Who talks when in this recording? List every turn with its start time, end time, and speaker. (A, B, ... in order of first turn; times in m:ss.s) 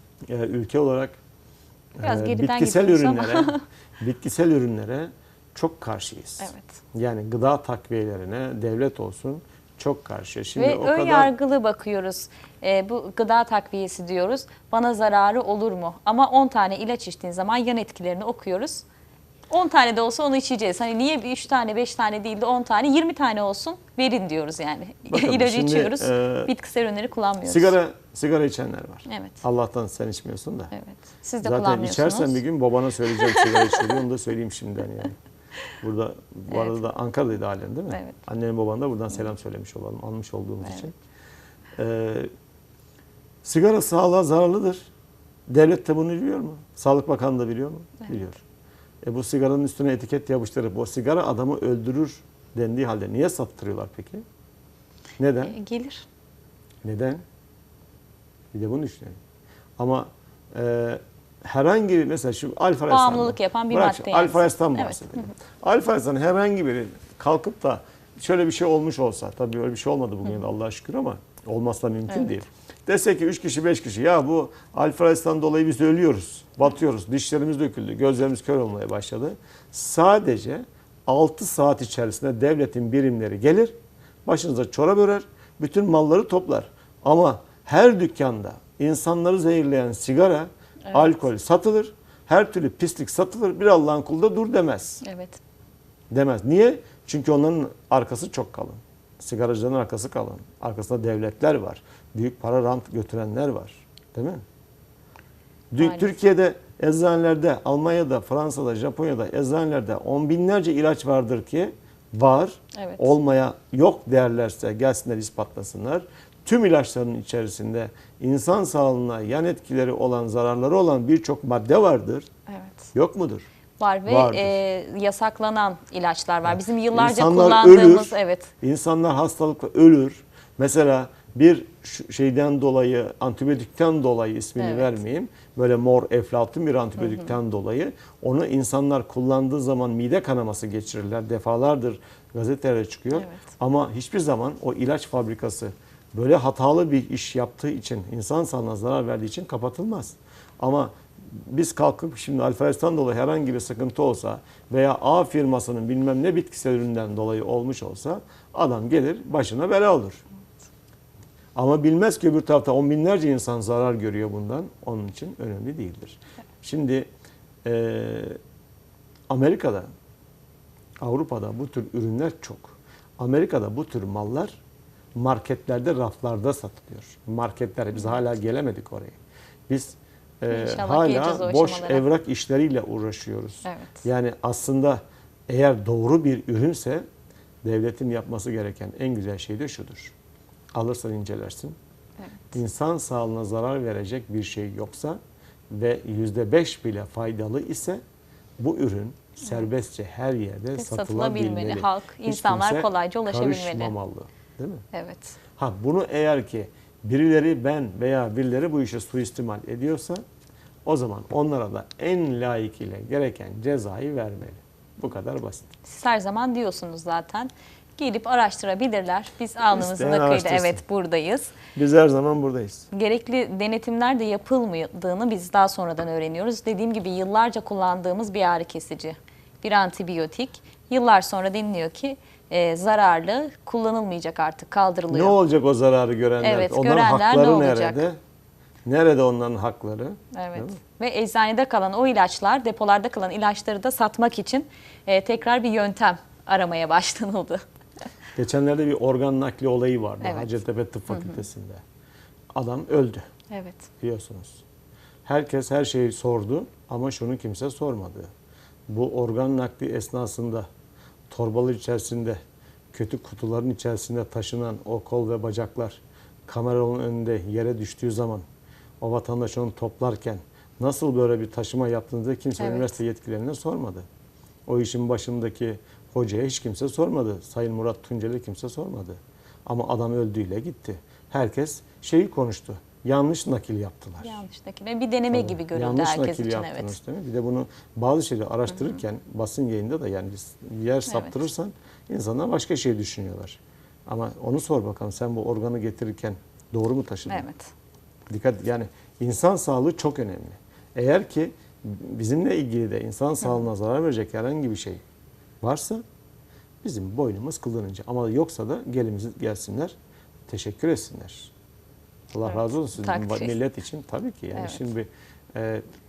0:00.3-0:01.2 A
0:02.0-0:11.3 A
0:02.0-0:03.6 B
0:06.4-0:06.8 B
0:10.6-0:18.8 B
0:19.5-0:27.8 B
0:25.1-0:26.5 A
0:27.4-0:30.7 A
0:29.1-0:29.4 B
0:30.7-0:32.4 B
0:31.4-0:35.2 A
0:33.1-0:33.8 B
0:35.8-0:40.9 A
0:41.8-0:42.3 A
0:43.4-0:44.9 A
0:45.5-0:48.4 A
0:49.0-0:54.2 A
0:55.2-0:55.6 A
0:55.5-0:56.0 B
0:56.8-0:57.2 A
0:58.5-0:59.2 A
0:59.8-1:23.7 A
1:02.9-1:05.3 B
1:12.1-1:12.4 B
1:24.3-1:35.0 A
1:35.0-1:35.4 B
1:36.1-1:44.4 A
1:45.7-2:02.3 A
1:45.8-1:46.1 B
1:52.8-1:53.1 B
2:02.5-2:02.9 B
2:02.9-2:03.5 A
2:03.8-2:08.5 B
2:04.1-2:04.6 A
2:06.4-2:40.2 A
2:14.6-2:15.0 B
2:23.1-2:23.4 B
2:41.6-2:47.1 A
2:47.6-2:48.4 A
2:49.3-2:49.9 A
2:51.0-2:54.6 A
2:55.2-2:59.2 A
2:59.7-3:07.0 A
3:00.5-3:02.0 B
3:03.6-3:04.0 B
3:07.6-3:10.2 A
3:10.8-3:11.8 A
3:12.2-3:12.6 B
3:12.5-3:15.2 A
3:15.7-3:18.0 A
3:18.6-3:24.8 A
3:20.8-3:23.9 B
3:24.9-3:25.4 B
3:25.6-3:30.2 A
3:30.9-3:35.7 A
3:35.8-3:41.6 B
3:39.7-3:40.8 A
3:41.7-3:42.9 A
3:42.9-3:55.4 B
3:55.1-3:58.2 A
3:56.4-3:58.0 B
3:58.8-4:00.8 A
4:00.3-4:07.6 B
4:08.4-4:11.8 A
4:10.2-4:10.5 B
4:11.1-4:11.4 B
4:12.6-4:13.3 A
4:13.5-4:13.9 B
4:14.0-4:14.6 A
4:15.3-4:18.3 A
4:18.9-4:20.7 A
4:21.3-4:22.4 A
4:22.9-4:28.5 A
4:29.0-4:34.0 A
4:32.6-4:33.0 B
4:34.7-4:44.4 A
4:44.2-4:47.0 B
4:45.3-4:57.5 A
4:51.1-4:51.4 B
4:57.3-4:57.7 B
4:58.3-5:05.0 A
5:05.6-5:06.0 A
5:06.8-5:09.9 A
5:10.5-5:11.5 A
5:12.3-5:15.8 A
5:12.5-5:13.5 B
5:14.5-5:14.8 B